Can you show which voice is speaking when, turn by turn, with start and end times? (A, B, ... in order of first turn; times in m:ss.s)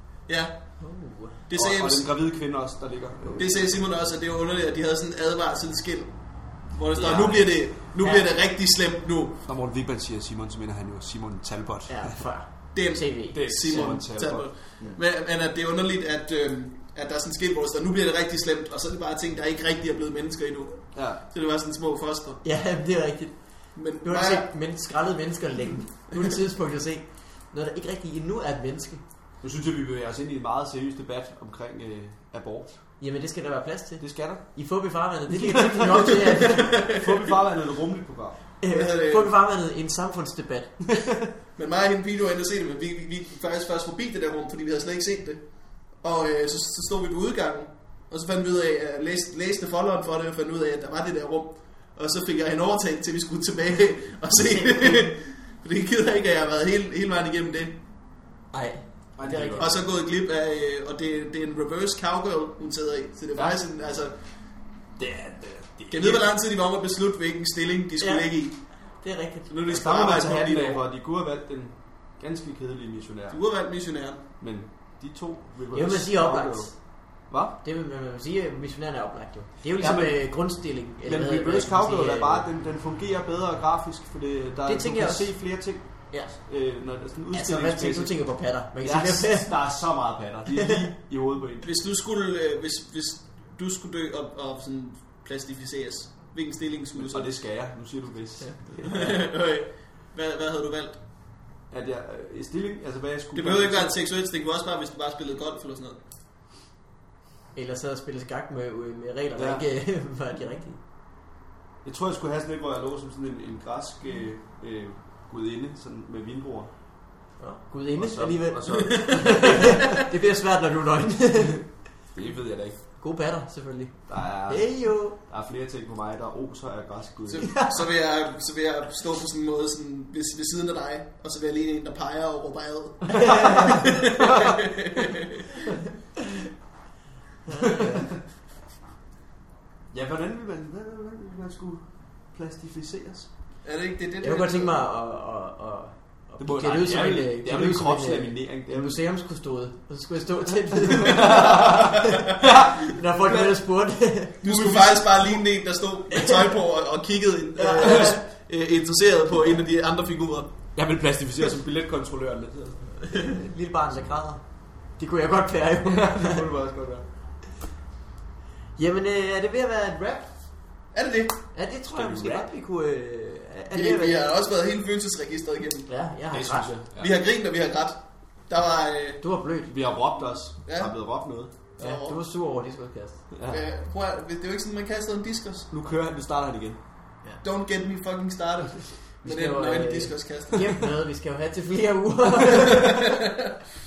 0:00.3-0:00.6 A
0:00.8-0:01.4 B
0:01.5-0:02.1 A
0:01.5-0:03.8 C
0:03.4-0:09.4 A
0:06.9-0:07.6 C
0:09.4-0:12.2 C
0:11.9-0:13.9 B
0:12.8-0:22.4 A
0:13.3-0:15.0 C
0:20.9-0:21.2 C
0:22.4-0:29.0 B
0:23.8-0:24.5 A
0:29.4-0:32.8 C
0:33.0-0:36.8 B
0:34.0-0:34.4 C
0:35.3-0:36.1 C
0:36.1-0:37.3 A
0:36.8-0:38.4 C
0:38.6-0:40.8 B
0:38.7-0:39.3 A
0:40.9-0:41.3 C
0:41.6-0:45.4 A
0:46.0-0:57.8 A
0:58.5-0:59.7 B
0:59.2-0:59.7 C
0:59.6-1:04.2 A
1:05.0-1:06.2 C
1:05.9-1:08.7 A
1:08.0-1:09.5 B
1:09.5-1:10.8 A
1:09.7-1:13.4 C
1:13.3-1:14.2 A
1:14.4-1:17.6 C
1:15.7-1:16.9 B
1:17.6-1:22.4 B
1:19.8-1:28.2 C
1:24.7-1:25.4 B
1:26.1-1:26.4 B
1:27.3-1:29.5 B
1:28.8-1:31.7 C
1:30.6-1:30.8 B
1:31.6-1:37.3 A
1:37.0-1:39.2 C
1:38.4-1:38.9 B
1:38.9-1:41.0 A
1:41.7-1:43.9 C
1:43.4-1:46.0 A
1:47.5-1:50.8 B
1:49.4-1:49.6 C
1:51.8-1:56.7 C
1:57.4-2:01.7 B
1:58.0-1:59.8 C
2:02.1-2:02.8 C
2:03.0-2:05.2 B
2:04.1-2:07.6 C
2:07.3-2:15.6 A
2:07.5-2:07.8 B
2:13.1-2:13.9 B
2:14.2-2:14.6 C
2:17.5-2:18.1 B
2:17.6-2:18.2 C
2:19.9-2:23.3 C
2:23.6-2:24.8 A
2:24.2-2:34.4 B
2:26.4-2:29.0 C
2:30.5-2:33.6 C
2:34.4-2:40.6 A
2:34.4-2:35.4 C
2:36.1-2:36.5 B
2:37.6-2:38.2 B
2:40.8-2:42.9 C
2:43.1-2:44.4 B
2:45.0-2:46.4 B
2:45.8-2:47.0 C
2:48.8-2:50.4 B
2:50.9-2:51.4 A
2:51.5-2:54.3 B
2:51.9-2:52.5 C
2:53.7-2:55.9 A
2:55.9-2:56.7 B
2:56.3-2:57.1 C
2:57.0-2:59.2 A
2:59.2-2:59.7 B
2:59.7-3:01.5 C
3:00.7-3:00.9 A
3:01.8-3:02.2 A
3:01.8-3:03.2 B
3:03.3-3:03.6 C
3:03.5-3:05.7 A
3:05.7-3:06.8 C
3:07.4-3:10.9 A
3:09.2-3:13.1 B
3:12.8-3:13.3 A